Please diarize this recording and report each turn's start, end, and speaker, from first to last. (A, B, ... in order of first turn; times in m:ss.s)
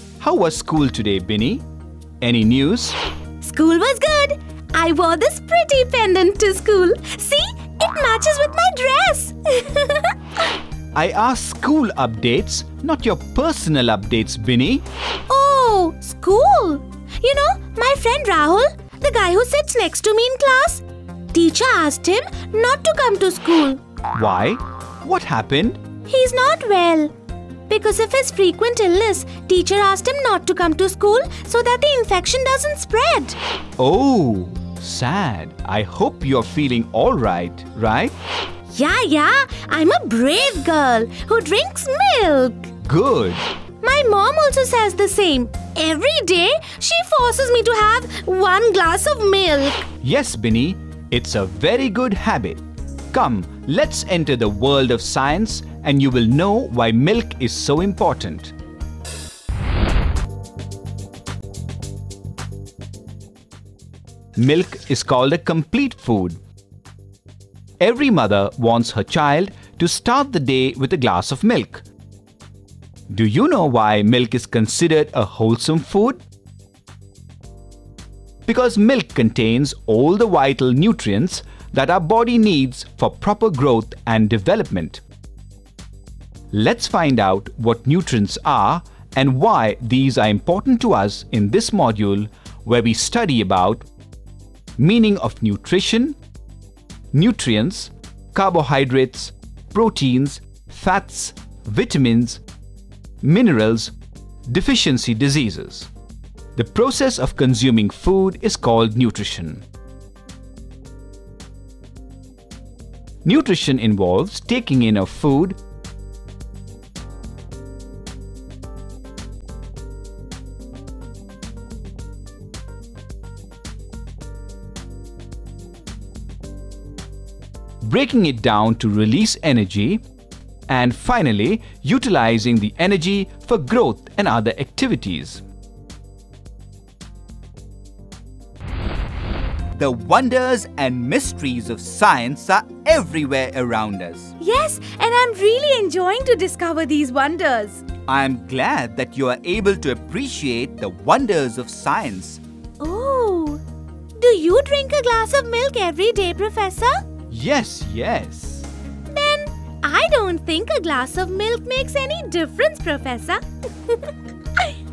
0:00.2-0:01.6 A
0:02.2-0:03.0 A
0:03.4-0:10.5 B
0:11.0-0:14.8 A
0:15.3-0:23.8 B
0:24.2-0:25.8 A
0:26.1-0:27.1 B
0:27.7-0:33.4 B
0:33.8-0:38.1 A
0:38.7-0:42.7 B
0:42.8-0:43.4 A
0:43.8-0:49.9 B
0:50.0-0:58.5 A
1:04.4-1:06.4 A
1:07.8-1:11.8 A
1:13.1-1:16.2 A
1:18.5-1:25.0 A
1:26.5-1:33.9 A
1:34.8-1:36.2 A
1:37.1-1:42.4 A
1:43.2-1:43.9 A
1:44.5-1:45.9 A
1:46.6-1:49.6 A
1:53.2-1:55.6 A
2:07.8-2:10.0 A
2:10.7-2:15.4 A
2:19.8-2:24.3 A
2:24.4-2:27.8 B
2:28.1-2:32.4 A
2:32.8-2:33.6 B
2:34.2-2:37.0 B
2:37.3-2:38.7 A
2:39.1-2:44.7 B